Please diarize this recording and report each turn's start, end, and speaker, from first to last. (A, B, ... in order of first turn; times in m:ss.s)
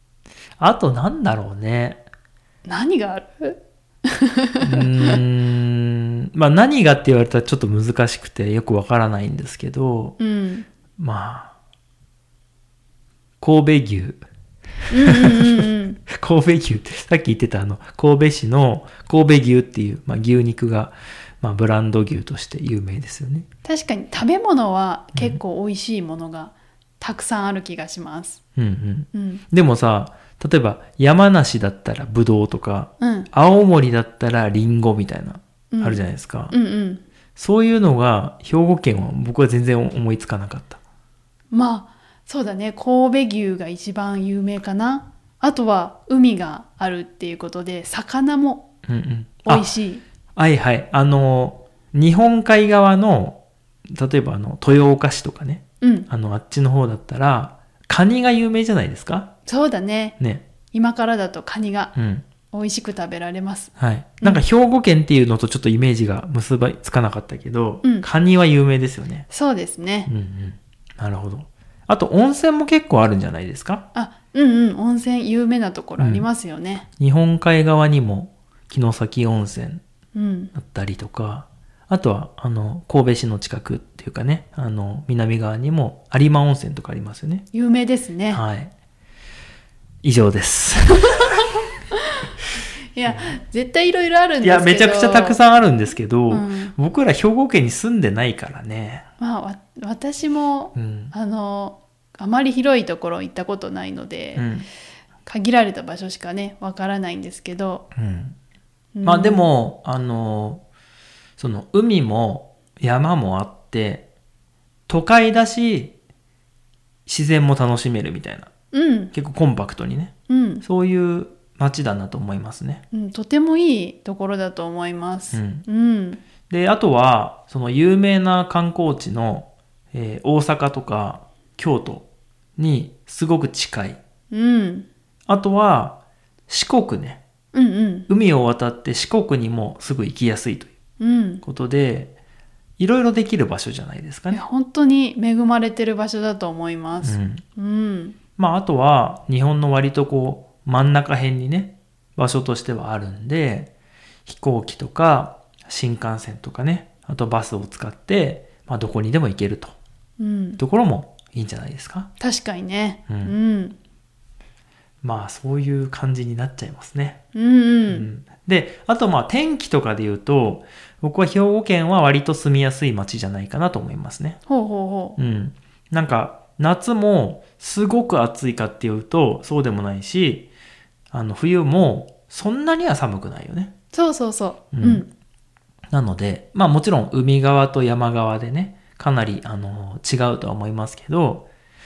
0:00.6-0:02.0 A
0:02.6-0:05.2 B
0:04.6-0:10.2 A
0:10.2-0:10.7 B
0:11.0-0:11.5 A
0:13.4-0:14.2 A
0:14.9-0:16.0 B
0:15.0-0:23.5 A
0:23.6-0:28.4 B
0:28.6-0:36.5 A
0:29.1-0:29.4 B
0:33.0-0:33.3 B
0:35.7-0:37.0 B
0:37.4-0:40.8 A
0:41.5-0:48.7 B
0:48.8-0:49.7 A
0:49.4-0:50.0 B
0:50.4-0:59.3 A
0:55.8-0:56.1 B
0:59.4-1:00.2 B
1:00.2-1:00.4 A
1:00.7-1:01.9 B
1:01.9-1:02.2 A
1:02.5-1:03.7 B
1:03.8-1:09.3 A
1:09.3-1:10.1 B
1:10.1-1:13.8 A
1:13.9-1:16.9 B
1:16.0-1:16.3 A
1:17.0-1:19.8 A
1:20.1-1:20.5 B
1:20.5-1:27.4 A
1:27.5-1:28.4 B
1:28.3-1:28.7 A
1:30.0-1:31.4 A
1:32.9-1:35.4 B
1:33.0-1:33.3 A
1:34.4-1:39.0 A
1:36.3-1:36.7 B
1:39.2-1:44.4 B
1:40.7-1:41.1 A
1:44.4-1:44.7 A
1:45.2-1:47.8 B
1:48.0-1:48.4 A
1:48.9-1:49.5 B
1:49.0-1:50.6 A
1:51.4-1:54.1 A
1:54.9-1:55.9 A
1:57.1-1:58.5 A
1:58.7-1:59.1 B
1:59.1-2:02.8 A
2:00.3-2:00.6 B
2:02.9-2:06.2 B
2:05.3-2:05.6 A
2:06.5-2:14.0 A
2:14.3-2:14.9 B
2:15.3-2:17.2 A
2:17.5-2:18.1 B
2:18.1-2:20.7 A
2:21.0-2:21.4 B
2:21.4-2:22.1 A
2:22.8-2:24.4 A
2:24.3-2:28.2 B
2:27.0-2:27.4 A
2:28.4-2:33.7 A
2:34.2-2:39.7 A
2:40.2-2:40.6 B
2:40.6-2:42.1 A
2:42.2-2:43.8 B
2:43.1-2:43.3 A
2:45.0-2:47.2 A
2:47.3-2:48.1 B
2:47.9-2:54.4 A
2:54.5-2:55.2 B
2:55.2-3:00.5 A
3:01.1-3:03.7 A
3:03.9-3:05.1 B
3:04.7-3:05.0 A
3:05.9-3:11.5 A